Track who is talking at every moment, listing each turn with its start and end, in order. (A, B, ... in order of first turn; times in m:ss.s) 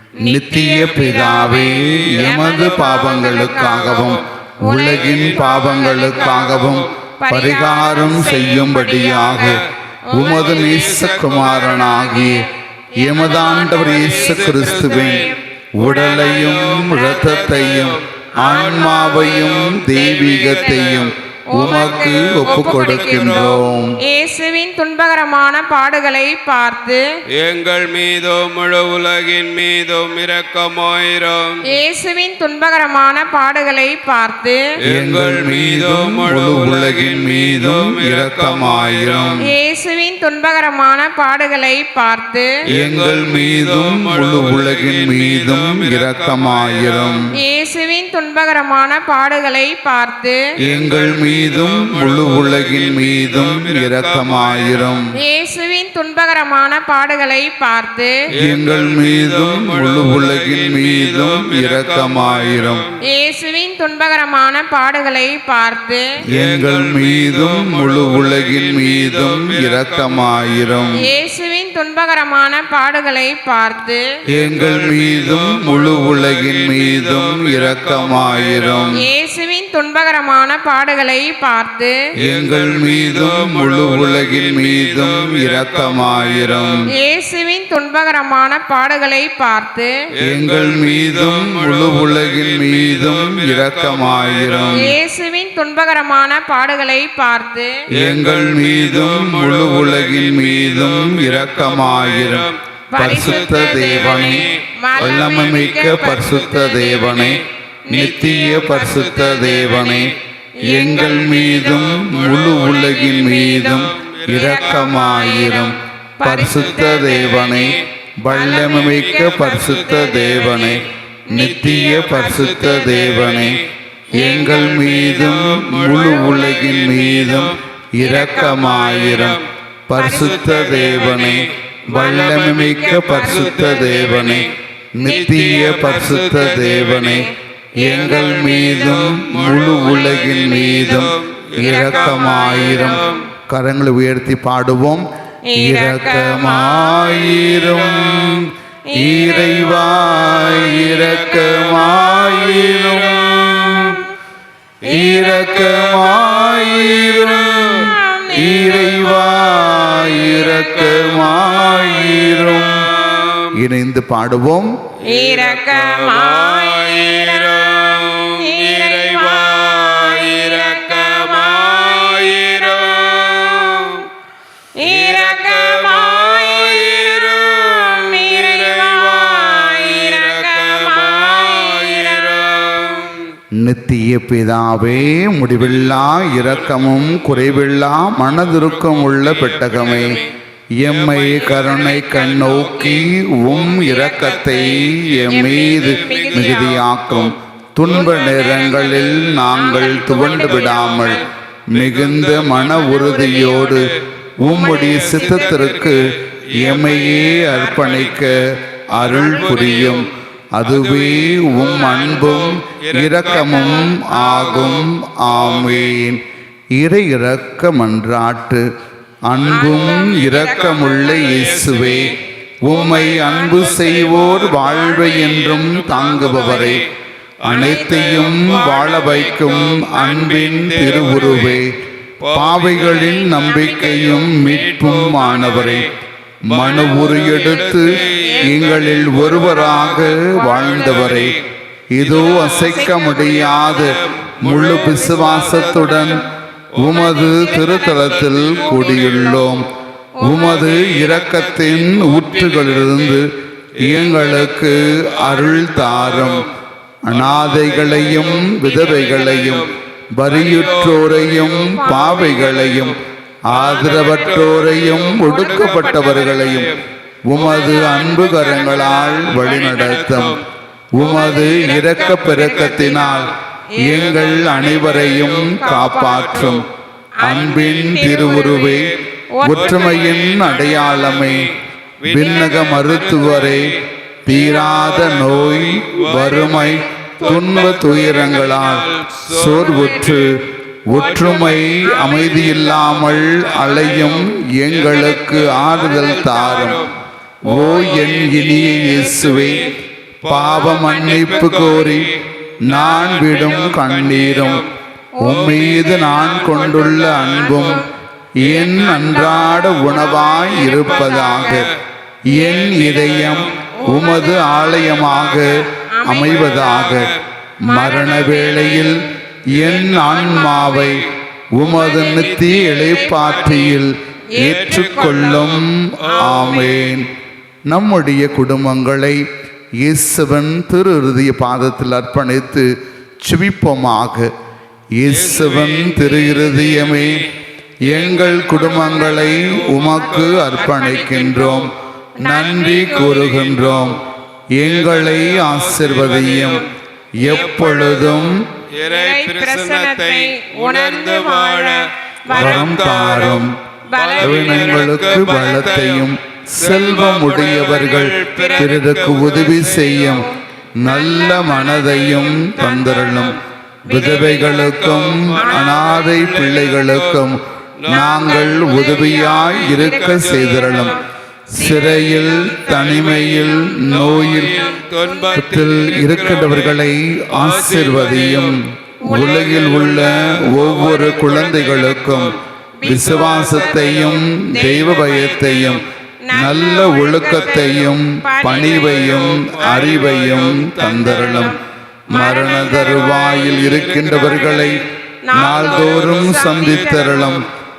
0:00.2-0:09.6 A
0:00.2-0:06.6 B
0:00.8-0:04.2 C
0:04.9-0:07.0 C
0:07.2-0:11.0 B
0:10.1-0:12.4 A
0:10.2-0:12.0 C
0:11.6-0:15.4 B
0:13.0-0:15.2 A
0:13.7-0:23.6 C
0:15.8-0:23.9 A
0:16.1-0:17.6 B
0:18.4-0:19.7 B
0:20.6-0:20.9 B
0:21.5-0:27.1 B
0:27.3-0:31.6 C
0:31.7-0:34.6 B
0:34.8-0:39.4 C
0:34.9-0:39.4 A
0:39.4-0:42.5 B
0:42.7-0:47.3 A
0:42.8-0:47.2 C
0:47.4-0:50.4 B
0:50.6-0:55.0 C
0:50.6-0:55.1 A
0:55.2-0:58.1 B
0:58.4-1:03.0 C
0:58.4-1:02.8 A
1:03.0-1:06.0 B
1:06.3-1:10.9 C
1:06.3-1:11.0 A
1:11.0-1:14.0 B
1:14.3-1:18.9 C
1:14.3-1:19.0 A
1:19.0-1:22.0 B
1:22.2-1:26.8 A
1:22.2-1:26.8 C
1:26.9-1:29.9 B
1:30.2-1:34.9 C
1:30.2-1:34.9 A
1:34.8-1:37.7 B
1:37.9-1:44.4 A
1:37.9-1:50.2 C
1:42.9-1:47.0 B
1:45.0-1:50.1 A
1:47.9-1:49.3 B
1:50.6-1:51.1 B
1:50.6-2:03.6 A
1:50.7-1:55.1 C
1:54.3-1:57.7 B
1:56.5-1:57.8 C
1:58.3-2:00.7 B
1:58.6-2:03.7 C
2:01.4-2:02.7 B
2:04.1-2:17.2 A
2:04.2-2:07.6 C
2:04.2-2:04.6 B
2:08.0-2:09.3 B
2:09.0-2:09.4 C
2:09.9-2:11.3 B
2:10.1-2:14.5 C
2:11.9-2:15.8 B
2:15.0-2:17.2 C
2:17.0-2:17.3 B
2:17.8-2:25.1 A
2:17.8-2:23.2 C
2:17.8-2:18.6 B
2:20.4-2:20.9 B
2:21.6-2:23.3 B
2:25.5-2:27.3 B
2:25.6-2:34.0 A
2:27.3-2:28.5 C
2:28.9-2:29.8 B
2:29.3-2:34.0 C
2:34.8-2:37.8 C
2:34.8-2:42.9 A
2:35.0-2:35.4 B
2:37.5-2:39.2 B
2:39.9-2:43.5 C
2:42.9-2:43.4 B
2:43.5-2:44.7 A
2:45.0-2:52.8 B
2:45.0-2:54.1 C
2:53.4-2:53.6 B
2:54.8-3:03.1 B
2:54.8-3:03.3 C
3:03.6-3:10.2 A
3:05.6-3:07.7 C
3:08.3-3:10.3 C
3:10.8-3:23.9 A
3:10.8-3:21.2 C
3:11.5-3:13.0 B
3:13.6-3:16.8 B
3:18.6-3:21.3 B
3:21.7-3:24.0 C
3:24.4-3:36.2 A
3:24.5-3:26.0 B
3:24.6-3:28.3 C
3:29.0-3:36.0 C
3:36.7-3:38.6 A
3:39.3-3:42.1 A
3:39.5-3:42.2 B
3:40.4-3:42.1 C
3:42.6-3:46.8 A
3:42.7-3:43.7 B
3:42.7-3:46.8 C
3:46.2-3:46.7 B
3:47.4-3:51.6 C
3:47.4-3:51.7 A
3:47.5-3:49.4 B
3:52.2-3:55.9 C
3:52.3-3:55.9 A
3:52.9-3:54.7 B
3:56.5-4:01.4 A
3:56.5-4:01.4 C
3:57.0-3:58.6 B
4:00.3-4:01.3 B
4:01.9-4:06.2 A
4:02.0-4:09.6 C
4:02.4-4:03.9 B
4:04.7-4:06.2 B
4:06.8-4:09.7 A
4:07.3-4:09.5 B
4:10.2-4:10.6 B
4:10.2-4:13.3 A
4:10.3-4:13.2 C
4:13.8-4:16.5 C
4:13.8-4:16.5 A
4:17.0-4:26.7 A
4:17.1-4:23.0 C
4:21.7-4:22.4 B
4:23.5-4:26.8 C
4:25.2-4:26.0 B
4:27.3-4:30.4 A
4:27.3-4:30.4 C
4:27.5-4:27.9 B
4:30.9-4:33.3 A
4:31.0-4:34.4 B
4:31.0-4:33.3 C
4:33.8-4:36.7 A
4:33.9-4:36.7 C
4:35.3-4:36.6 B
4:37.2-4:38.8 B
4:37.2-4:41.5 A
4:37.3-4:50.3 C
4:39.3-4:40.2 B
4:42.0-4:50.3 A
4:50.9-4:56.9 A
4:50.9-4:56.9 C
4:57.4-4:59.6 A
4:57.4-4:59.7 C
4:59.5-4:59.7 B
5:00.2-5:04.7 C
5:00.3-5:02.1 A
5:02.6-5:04.6 A
5:05.2-5:05.8 B
5:05.2-5:11.7 A
5:05.3-5:07.8 C
5:07.1-5:07.9 B
5:08.4-5:11.7 C
5:10.2-5:11.6 B
5:12.2-5:17.1 A
5:12.3-5:12.6 B
5:12.5-5:15.6 C
5:13.6-5:15.0 B
5:15.7-5:16.6 B
5:16.2-5:17.2 C
5:17.6-5:21.0 A
5:17.6-5:19.0 B
5:17.8-5:18.9 C
5:19.5-5:21.1 C
5:20.3-5:20.9 B
5:21.5-5:27.1 A
5:21.6-5:23.8 B
5:22.0-5:23.7 C
5:24.3-5:25.4 B
5:24.4-5:27.0 C
5:26.0-5:26.8 B
5:27.7-5:29.2 A
5:29.8-5:32.7 A
5:33.2-5:34.3 A
5:34.9-5:37.2 A
5:35.0-5:37.3 C
5:37.8-5:40.9 C
5:37.8-5:41.7 A
5:38.7-5:43.4 B
5:42.2-5:44.0 A
5:42.8-5:44.0 C
5:44.5-5:46.6 A
5:44.6-5:46.7 C
5:47.2-5:48.4 A
5:47.2-6:00.1 C
5:48.8-5:53.0 B
5:52.3-5:53.6 A
5:53.9-5:54.9 B
5:54.2-6:00.3 A
5:57.3-6:03.0 B
6:00.8-6:11.0 A
6:02.3-6:07.2 C
6:04.1-6:04.6 B
6:05.4-6:06.2 B
6:07.8-6:11.0 C
6:07.9-6:15.7 B
6:11.5-6:14.6 A
6:12.1-6:16.8 C
6:15.3-6:31.6 A
6:17.3-6:25.8 C
6:19.0-6:19.6 B
6:22.8-6:25.3 B
6:26.2-6:29.9 B
6:28.4-6:31.5 C
6:31.0-6:31.6 B
6:32.1-6:33.2 B
6:32.1-6:37.4 A
6:32.2-6:37.4 C
6:35.2-6:37.4 B